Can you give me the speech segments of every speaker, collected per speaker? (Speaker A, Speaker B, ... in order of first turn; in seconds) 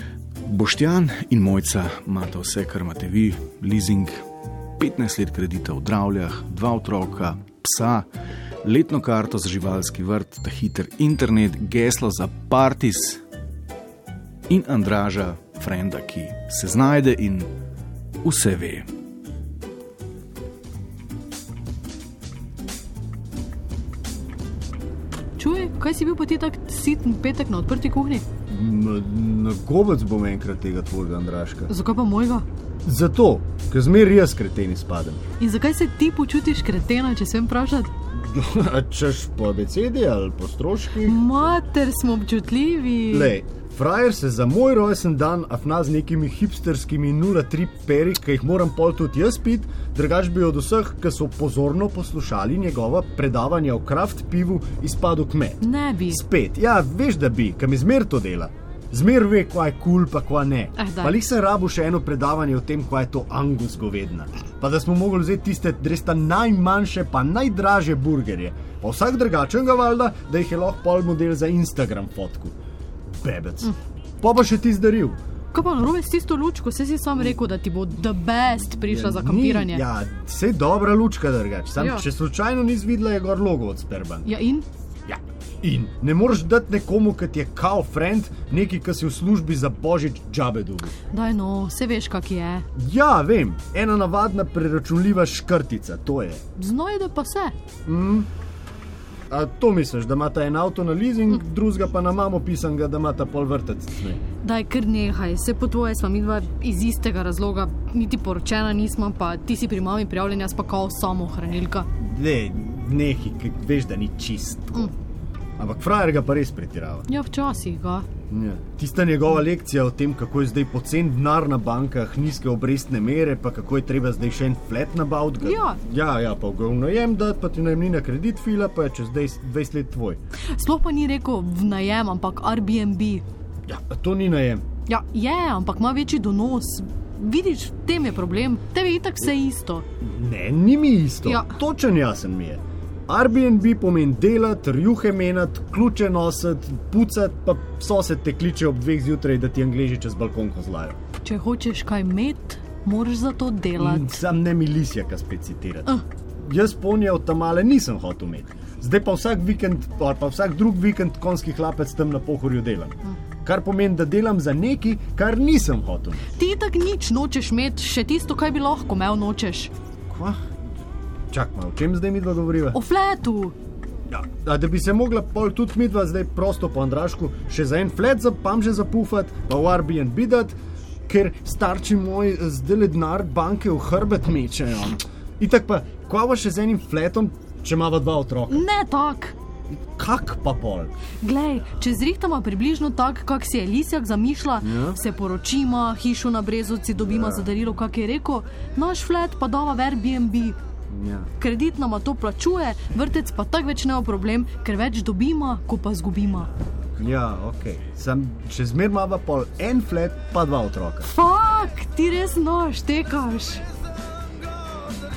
Speaker A: 0.4-4.2, 4.8-8.1, 8.6-13.2, 14.5-17.5, 18.2-18.9
Speaker B: 25.4-28.2, 31.7-32.4, 35.4-37.9, 41.0-43.3, 55.6-56.2, 60.8-61.1, 75.5-79.8, 81.8-82.0, 84.2-84.7, 91.1-92.7, 96.5-97.5, 104.4-111.9, 117.1-118.1, 125.4-125.8, 130.5-133.2, 134.9-139.8, 141.2-141.6, 151.2-154.2, 166.3-169.7, 172.7-173.5, 188.5-189.3, 191.2-200.6, 201.4-206.5, 211.1-213.6
Speaker C: 28.5-31.7, 32.8-35.2, 38.1-41.2, 43.1-72.5, 73.2-75.2, 78.8-84.3, 85.1-90.9, 92.7-96.4, 97.9-98.3, 99.3-104.2, 112.0-114.9, 115.6-117.1, 118.3-130.2, 133.7-134.6, 140.0-151.0, 153.8-166.3, 170.1-170.4, 171.3-172.8, 174.1-180.6, 181.1-188.7, 189.7-190.9, 194.6-195.0, 197.0-197.5, 200.9-201.3, 207.0-211.1